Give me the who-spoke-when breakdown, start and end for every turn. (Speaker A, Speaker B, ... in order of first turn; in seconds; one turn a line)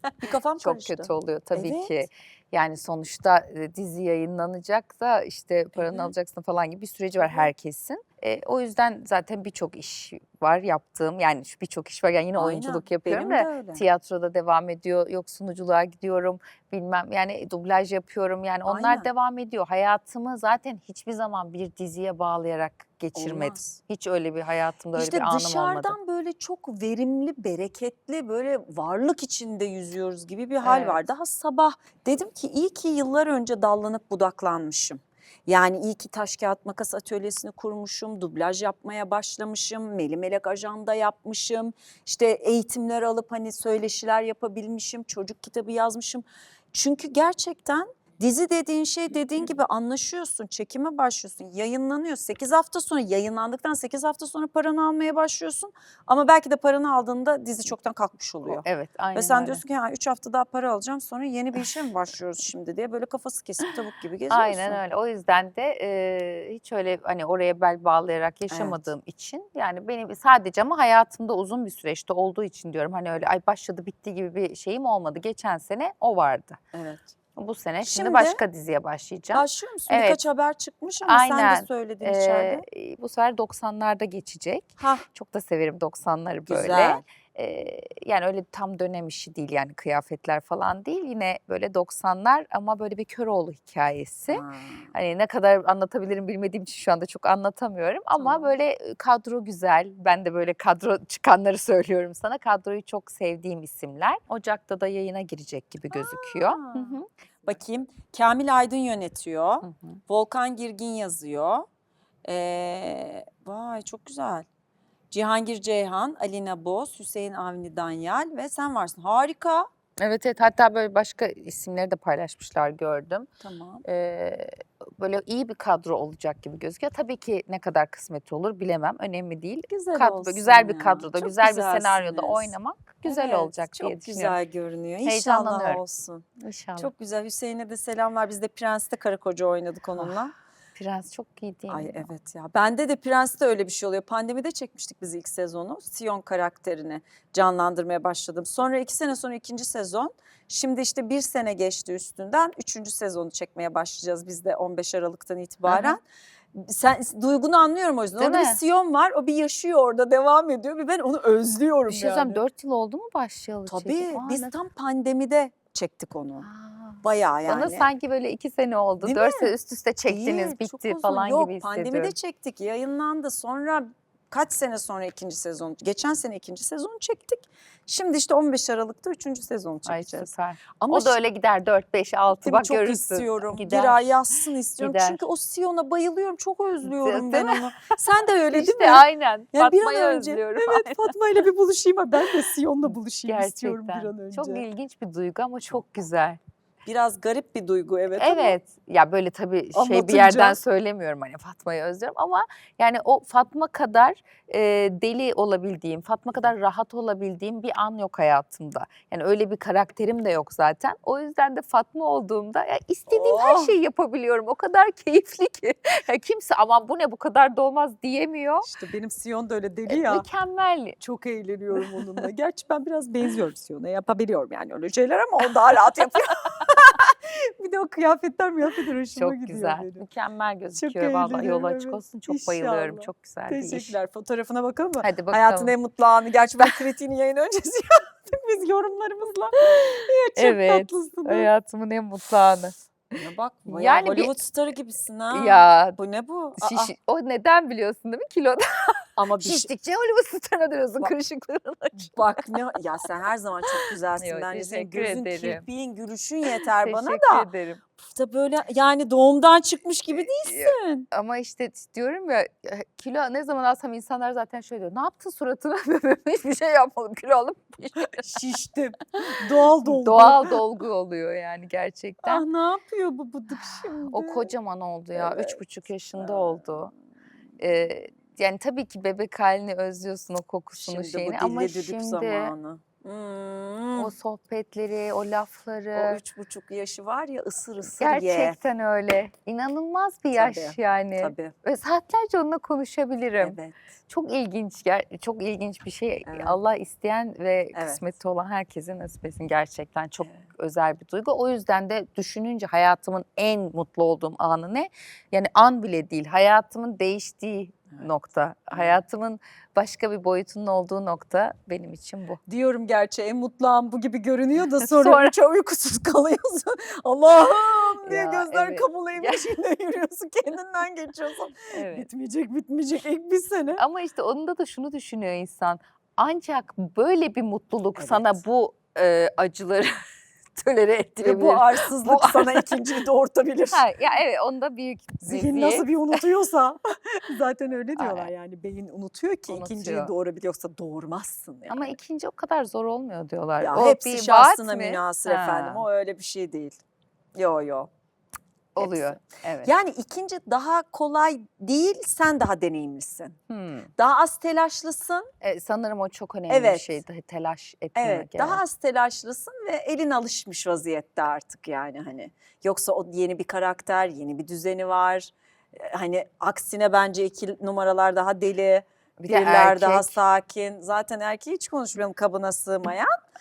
Speaker A: 0.2-2.0
Speaker B: 0.6-26.0
Speaker A: 5.7-6.1
Speaker A: 7.2-7.5
Speaker A: 12.3-13.8
Speaker A: 18.7-19.1
Speaker A: 23.1-23.8
Speaker A: 24.9-58.6
Speaker B: 30.6-31.0
Speaker B: 58.4-59.6
Speaker A: 59.1-64.8
Speaker B: 64.3-76.6
Speaker A: 68.5-68.8
Speaker A: 76.7-77.1
Speaker B: 77.4-80.2
Speaker A: 77.8-78.4
Speaker A: 79.3-82.6
Speaker B: 81.0-107.1
Speaker A: 84.8-85.1
Speaker A: 86.5-87.0
Speaker A: 94.3-94.9
Speaker A: 98.2-98.5
Speaker A: 105.9-111.7
Speaker B: 109.6-110.0
Speaker A: 112.2-114.5
Speaker A: 115.1-119.7
Speaker B: 120.0-123.3
Speaker A: 123.4-123.8
Speaker B: 123.8-134.4
Speaker A: 129.7-132.5
Speaker A: 133.1-136.2
Speaker B: 135.1-135.8
Speaker B: 136.4-136.9
Speaker A: 136.8-140.3
Speaker B: 140.8-142.1
Speaker A: 141.7-156.0
Speaker B: 155.7-156.0
Speaker A: 156.5-162.4
Speaker B: 158.2-158.6
Speaker B: 161.9-164.5
Speaker A: 163.7-166.5
Speaker B: 166.4-172.2
Speaker A: 167.0-167.9
Speaker A: 169.0-169.5
Speaker A: 170.1-181.2
Speaker B: 179.9-184.2
Speaker A: 182.3-194.7
Speaker B: 184.8-185.2
Speaker B: 186.8-187.9
Speaker B: 188.5-191.1
Speaker B: 193.3-196.4
Speaker A: 196.9-198.6
Speaker B: 198.2-218.7
Speaker A: 199.7-200.6
Speaker A: 213.1-213.8
Speaker A: 218.6-220.3
Speaker B: 219.9-221.0
Speaker A: 221.0-230.0
Speaker B: 229.1-234.0
Speaker A: 230.7-241.5
Speaker B: 235.0-235.7
Speaker B: 239.7-243.2
Speaker A: 243.2-246.9
Speaker B: 243.7-244.4
Speaker B: 245.3-246.0
Speaker B: 246.6-252.4
Speaker A: 249.2-249.7
Speaker A: 252.0-257.5
Speaker B: 253.8-255.7
Speaker B: 256.6-257.8
Speaker A: 258.1-261.1
Speaker B: 260.1-268.2
Speaker A: 268.2-270.6
Speaker B: 269.9-272.4
Speaker A: 272.2-274.5
Speaker B: 273.6-276.9
Speaker A: 275.1-275.6
Speaker A: 276.2-276.7
Speaker B: 277.6-282.5
Speaker A: 280.8-284.1
Speaker B: 284.0-286.2
Speaker A: 285.9-288.6
Speaker B: 288.0-312.4
Speaker A: 290.3-291.6
Speaker A: 293.4-293.8
Speaker A: 296.3-296.6
Speaker A: 297.7-298.0
Speaker A: 308.7-309.0
Speaker A: 312.5-323.8
Speaker B: 314.8-315.3
Speaker B: 318.0-319.5
Speaker B: 321.7-322.1
Speaker B: 323.8-329.9
Speaker A: 328.0-328.4
Speaker B: 330.6-332.7
Speaker A: 331.2-333.8
Speaker B: 333.7-336.2
Speaker A: 335.2-342.0
Speaker B: 338.0-338.3
Speaker B: 339.5-340.1
Speaker B: 341.7-345.9
Speaker A: 343.6-346.8
Speaker A: 347.4-347.9
Speaker B: 348.8-349.7
Speaker A: 348.8-353.4
Speaker B: 353.5-353.9
Speaker A: 354.0-355.3
Speaker B: 355.4-358.6
Speaker A: 356.5-357.0
Speaker A: 358.0-373.1
Speaker B: 369.2-370.2